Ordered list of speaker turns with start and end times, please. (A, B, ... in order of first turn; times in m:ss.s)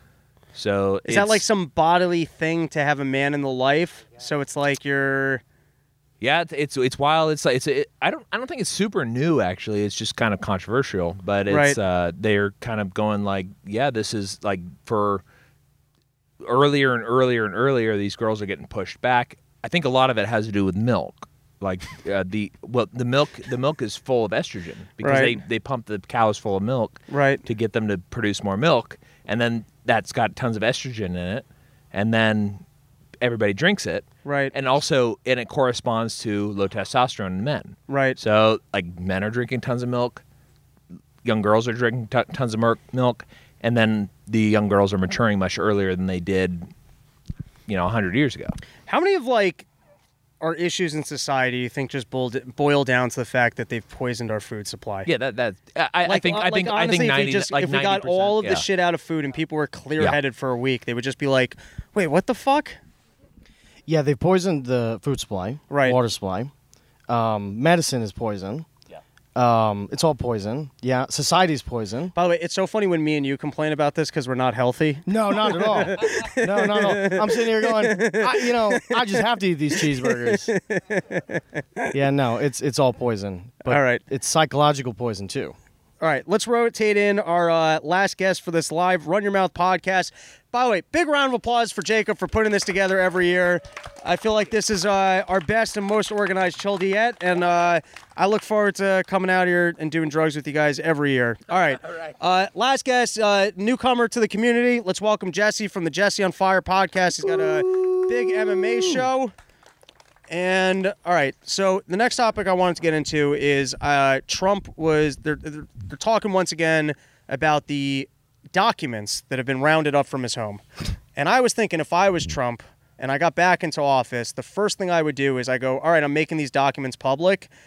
0:00.6-0:01.4 A
0:01.0-0:05.4 B
0:06.2-0:15.2 A
0:11.5-0:11.8 B
0:16.4-0:32.6 A
0:25.0-0:25.4 B
0:27.1-0:27.4 B
0:33.2-0:40.2 A
0:34.2-0:34.5 B
0:37.9-0:38.2 B
0:41.2-0:46.7 A
0:47.7-0:48.6 A
0:48.9-0:49.7 B
0:50.4-0:55.1 B
0:55.1-0:58.7 A
0:56.0-1:02.8 B
1:03.9-1:06.5 C
1:05.7-1:06.0 B
1:07.1-1:08.7 C
1:09.4-1:12.1 C
1:12.2-1:19.2 B
1:15.1-1:20.5 C
1:19.8-1:21.9 B
1:21.9-1:25.6 C
1:23.7-1:24.0 B
1:26.0-1:49.3 B
1:50.3-2:00.6 B
2:01.2-2:07.5 B